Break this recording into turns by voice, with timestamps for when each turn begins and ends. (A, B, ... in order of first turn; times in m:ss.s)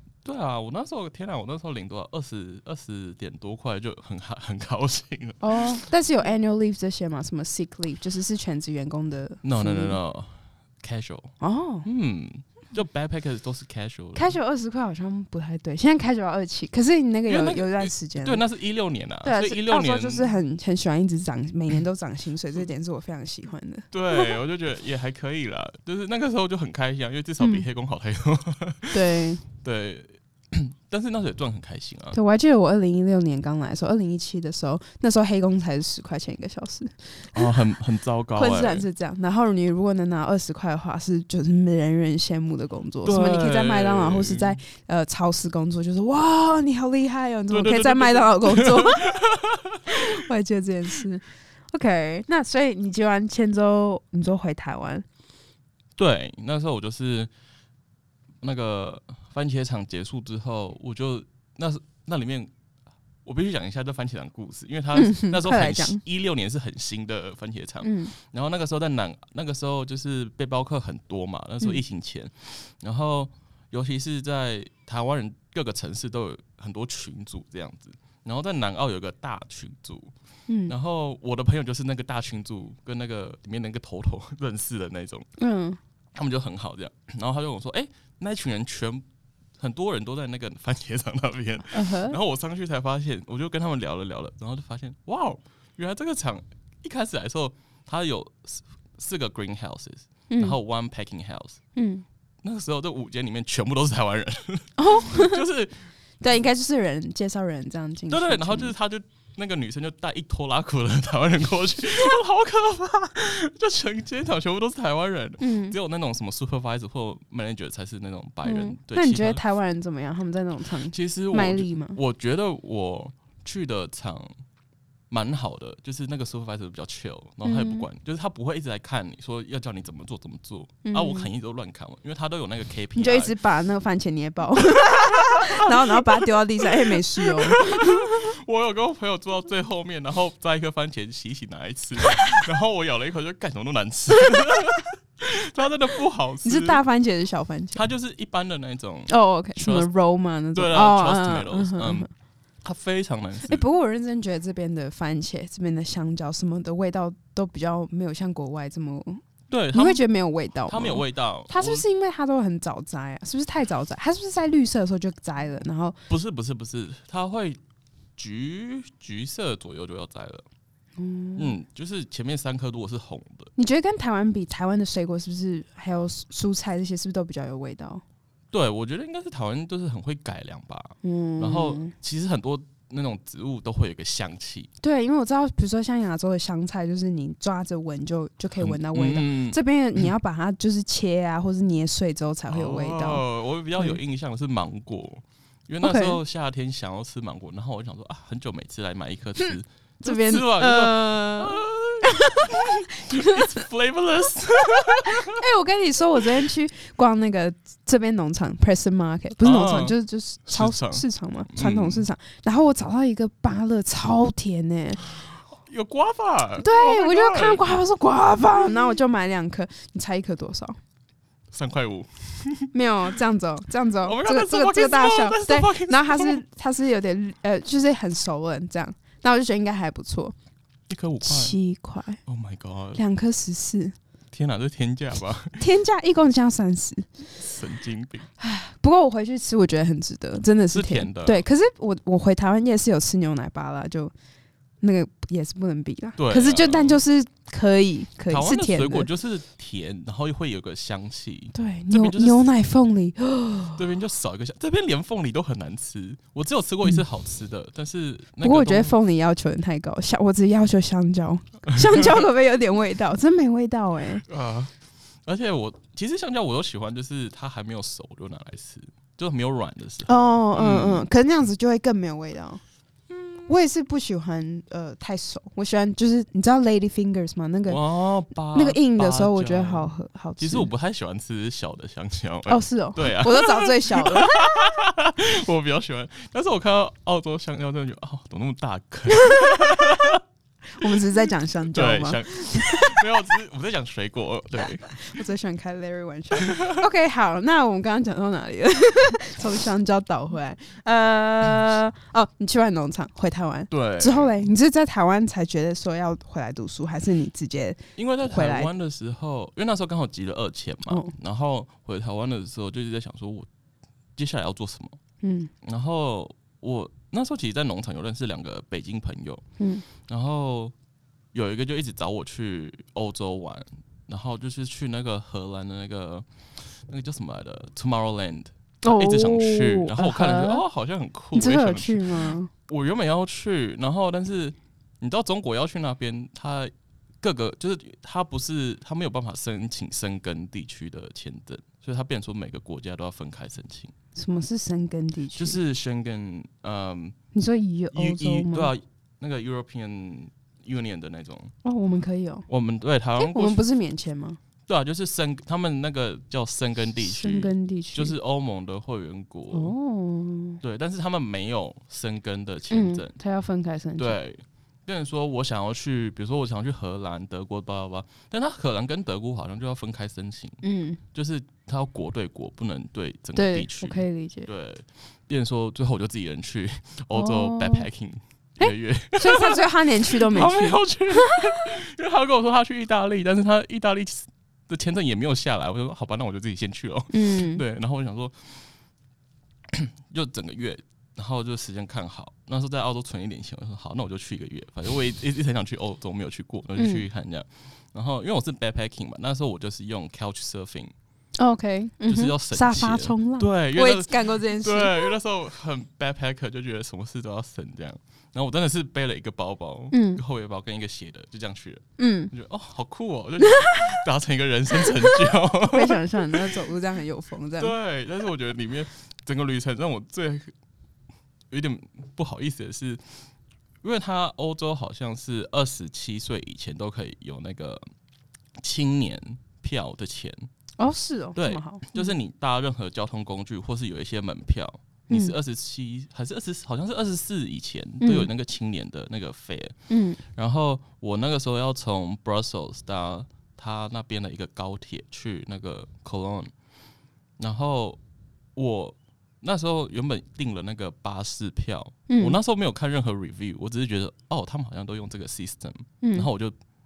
0:00.2-0:05.8 A
0:05.4-0:10.0 B
0:09.4-0:14.3 A
0:11.4-0:11.9 B
0:14.1-0:18.4 B
0:17.3-0:20.3 A
0:19.2-0:24.4 B
0:23.9-0:32.2 A
0:27.4-0:27.6 B
0:28.9-0:29.4 B
0:32.1-0:37.6 B
0:37.3-0:38.8 A
0:38.3-0:49.1 B
0:43.0-0:44.6 A
0:47.5-0:50.0 A
0:49.9-0:55.0 B
0:56.0-0:57.3 A
0:58.4-1:02.5 A
1:03.2-1:20.1 A
1:04.9-1:06.0 B
1:07.8-1:08.1 B
1:20.5-1:20.7 B
1:20.7-1:25.3 A
1:25.4-1:25.8 B
1:26.1-1:29.0 A
1:29.6-1:41.6 A
1:31.7-1:32.2 B
1:40.3-1:40.6 B
1:41.8-1:42.0 B
1:42.4-1:45.9 A
1:44.8-1:45.4 B
1:46.2-1:48.7 B
1:48.1-1:59.4 A
1:55.4-1:55.8 B
1:58.4-2:02.0 B
2:00.9-2:04.3 A
2:05.1-2:13.3 A
2:07.4-2:07.9 B
2:10.8-2:11.3 B
2:12.9-2:18.2 B
2:14.7-2:26.8 A
2:26.4-2:27.8 B
2:27.7-2:29.9 A
2:29.1-2:32.1 B
2:30.5-2:32.1 A
2:32.6-2:33.6 A
2:33.4-2:46.0 B
2:39.5-2:40.0 A
2:40.7-2:41.8 A
2:46.1-2:47.6 A
2:48.2-2:50.4 A
2:51.0-2:51.5 B
2:51.4-2:53.5 A
2:53.6-2:58.0 B
2:58.5-3:04.7 A
3:01.0-3:01.9 B
3:04.8-3:13.2 B
3:08.6-3:10.1 A
3:12.5-3:25.4 A
3:15.8-3:16.2 B
3:20.0-3:23.6 B
3:25.0-3:35.0 B
3:29.4-3:30.0 A
3:30.5-3:32.0 A
3:35.0-3:37.8 A
3:36.6-3:40.8 B
3:41.5-3:42.7 A
3:42.7-3:50.3 B
3:44.0-3:46.4 A
3:50.9-3:51.6 A
3:51.2-3:52.2 B
3:52.2-3:53.0 A
3:52.9-3:54.0 B
3:54.3-3:55.6 A
3:55.6-3:57.1 B
3:57.4-3:58.3 A
3:58.4-4:04.1 B
4:00.7-4:01.4 A
4:04.8-4:09.1 B
4:06.2-4:07.0 A
4:08.3-4:12.5 A
4:11.5-4:13.8 B
4:13.7-4:19.0 A
4:18.4-4:24.2 B
4:21.8-4:22.2 A
4:24.2-4:24.7 A
4:25.2-4:31.1 A
4:30.0-4:32.6 B
4:33.1-4:33.5 A
4:33.5-4:37.8 B
4:37.7-4:50.2 A
4:38.5-4:40.7 B
4:42.5-4:44.5 B
4:49.1-4:49.9 B
4:50.7-4:53.0 B
4:50.8-4:51.1 A
4:51.7-4:55.2 A
4:54.6-5:08.7 B
4:56.3-4:56.8 A
5:03.7-5:04.4 A
5:08.0-5:13.5 A
5:14.2-5:15.0 A
5:15.2-5:15.5 B
5:15.6-5:19.4 A
5:19.6-5:19.8 B
5:20.0-5:20.7 A
5:21.3-5:43.9 A
5:28.8-5:30.6 B
5:31.3-5:32.5 B
5:44.1-5:45.6 B
5:45.4-5:47.2 A
5:47.3-5:48.7 B
5:47.9-5:51.5 A
5:51.6-5:52.5 B
5:52.5-5:53.6 A
5:53.2-5:54.4 B
5:54.7-5:59.7 A
5:57.0-5:58.1 B
5:59.5-6:00.6 B
6:00.6-6:03.1 A
6:02.7-6:04.2 B
6:04.0-6:10.6 A
6:10.6-6:11.0 B
6:11.1-6:28.7 A
6:13.4-6:14.5 B
6:17.1-6:17.9 B
6:18.6-6:21.6 B
6:27.1-6:27.6 B
6:29.7-6:40.9 A
6:36.8-6:37.0 B
6:41.4-6:45.1 B
6:42.1-6:56.4 A
6:49.9-6:50.2 B
6:52.0-6:52.3 B
6:53.4-6:53.8 B
6:54.7-6:57.7 B
6:57.6-7:00.5 A
7:01.5-7:03.3 A
7:03.8-7:07.8 A
7:08.6-7:10.5 A
7:10.8-7:12.1 B
7:11.4-7:26.5 A
7:18.0-7:18.3 B
7:19.9-7:20.2 B
7:27.4-7:28.0 A
7:28.5-7:36.5 A
7:32.1-7:32.4 B
7:36.0-7:36.3 B